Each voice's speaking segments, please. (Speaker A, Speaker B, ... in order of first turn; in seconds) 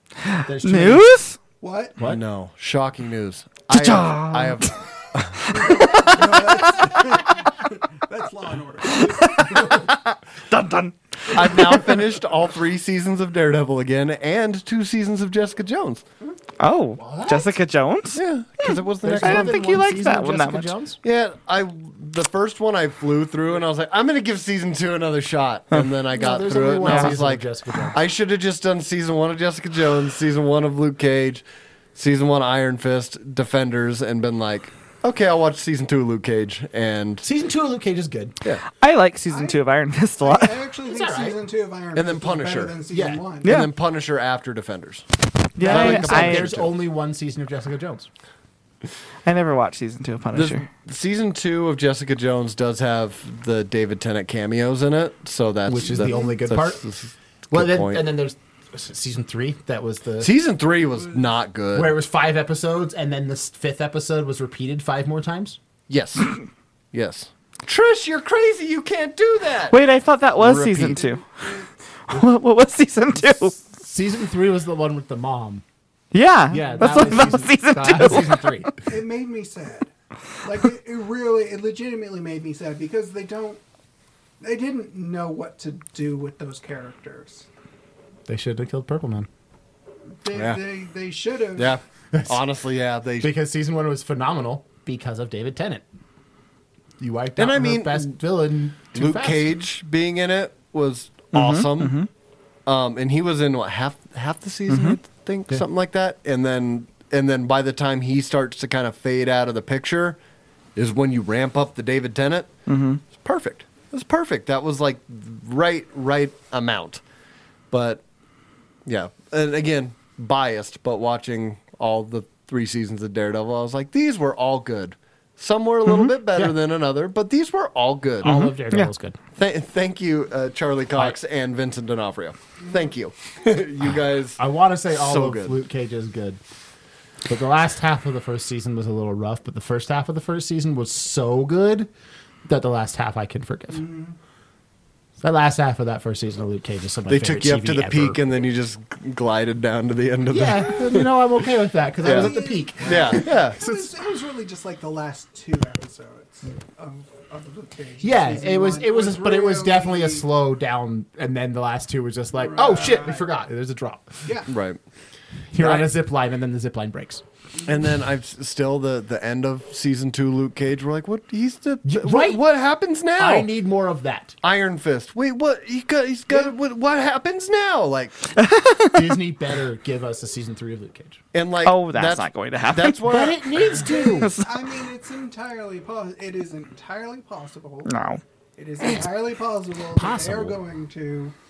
Speaker A: 0.2-1.4, 3.7-4.8, 5.4-7.1, 8.9-12.0, 16.6-20.7, 26.8-27.1, 38.8-40.6, 43.4-43.7, 45.6-46.5, 49.2-50.7, 69.7-71.3, 72.1-73.5, 76.1-78.8, 101.3-102.1, 104.7-105.0, 112.7-113.0, 128.2-128.9, 178.4-179.2, 181.7-183.1, 183.8-184.6, 187.9-188.2
Speaker B: 0.5-1.1, 17.0-17.5, 19.0-21.0, 26.1-28.0, 37.2-38.4, 40.9-41.4, 42.9-43.2, 45.6-48.1, 55.7-56.9, 57.5-60.3, 61.7-65.6, 73.6-75.6, 76.5-78.7, 88.3-89.3, 92.1-92.4, 93.2-95.8, 97.0-99.5, 128.2-129.2, 134.4-136.4, 137.3-141.9, 142.4-143.8, 145.2-148.2, 150.3-153.9, 158.0-164.3, 165.5-167.2, 171.8-172.4, 173.2-174.4, 178.9-181.2, 183.1-184.3, 190.0-190.6
Speaker C: 1.6-2.0, 5.5-9.8, 39.3-39.6, 40.2-43.6, 55.8-56.2, 71.2-71.7, 78.9-79.9, 80.4-83.6, 84.4-87.5, 90.2-91.8, 143.7-144.2, 152.0-160.3, 162.3-163.3, 164.2-164.5, 183.9-187.9, 188.6-191.3
Speaker D: 2.0-5.6, 11.3-16.0, 18.1-19.6, 21.0-31.4, 31.9-37.2, 41.9-42.8, 43.4-46.7, 50.3-58.0, 60.2-62.0, 65.9-66.4, 66.9-69.8, 70.4-71.1, 90.3-90.6, 91.5-93.3, 97.4-98.2, 98.9-102.0, 102.7-110.2, 110.8-112.5, 113.1-117.0, 117.7-118.0, 118.9-128.4, 129.4-135.6, 147.1-151.2, 152.0-153.6, 164.5-164.8, 165.6-165.9, 167.7-173.5, 174.4-178.2, 181.3-183.6